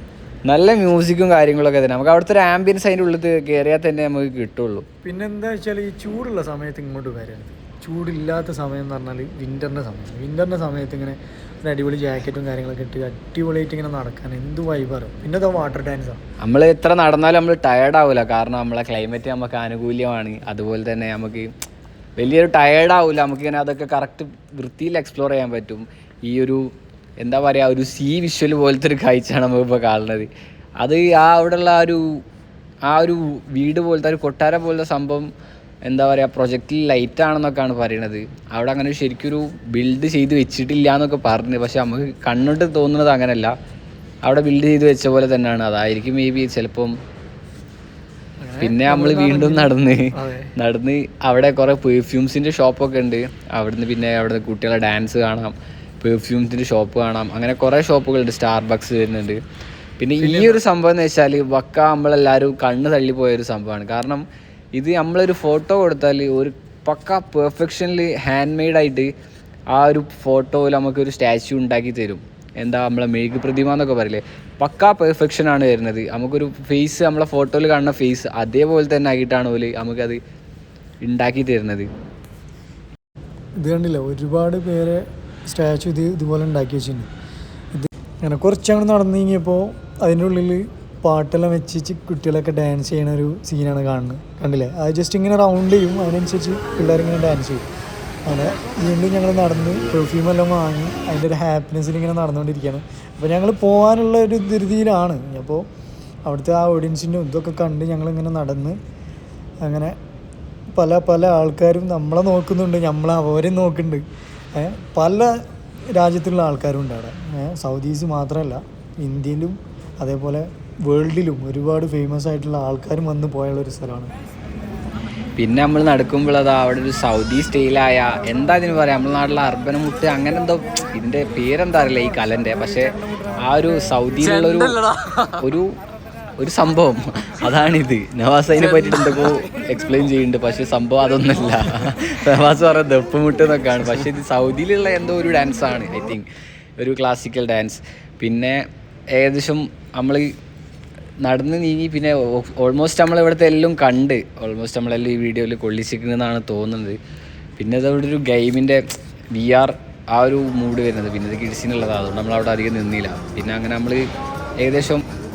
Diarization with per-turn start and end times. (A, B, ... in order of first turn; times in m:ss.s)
0:00.5-0:04.8 A
0:05.0-0:16.2 B
0:16.4-0:21.5 A
0:22.2-0:26.6 A
0:27.2-0:32.2 A
0:32.9-0:35.3 A
0:35.9-0:43.5 A
0:44.2-0:46.9 A
0:48.4-0:50.5 B
0:48.6-0:59.4 A
1:00.0-1:04.2 A
1:00.2-1:00.6 B
1:04.8-1:09.1 A
1:09.7-1:20.2 A
1:21.0-1:21.9 A
1:23.6-1:27.1 B
1:27.7-1:37.7 B
1:38.3-1:45.7 B
1:46.2-1:48.8 B
1:49.6-1:50.0 B
1:50.8-1:55.3 B
1:56.0-2:04.1 B
2:05.4-2:14.8 A
2:14.6-2:15.3 B
2:15.4-2:15.7 A
2:16.4-2:26.2 A
2:18.6-2:19.0 B
2:26.8-2:28.6 A
2:29.1-2:30.3 A
2:31.2-2:37.0 A
2:37.6-2:38.8 A
2:39.3-2:44.0 A
2:44.6-2:45.0 A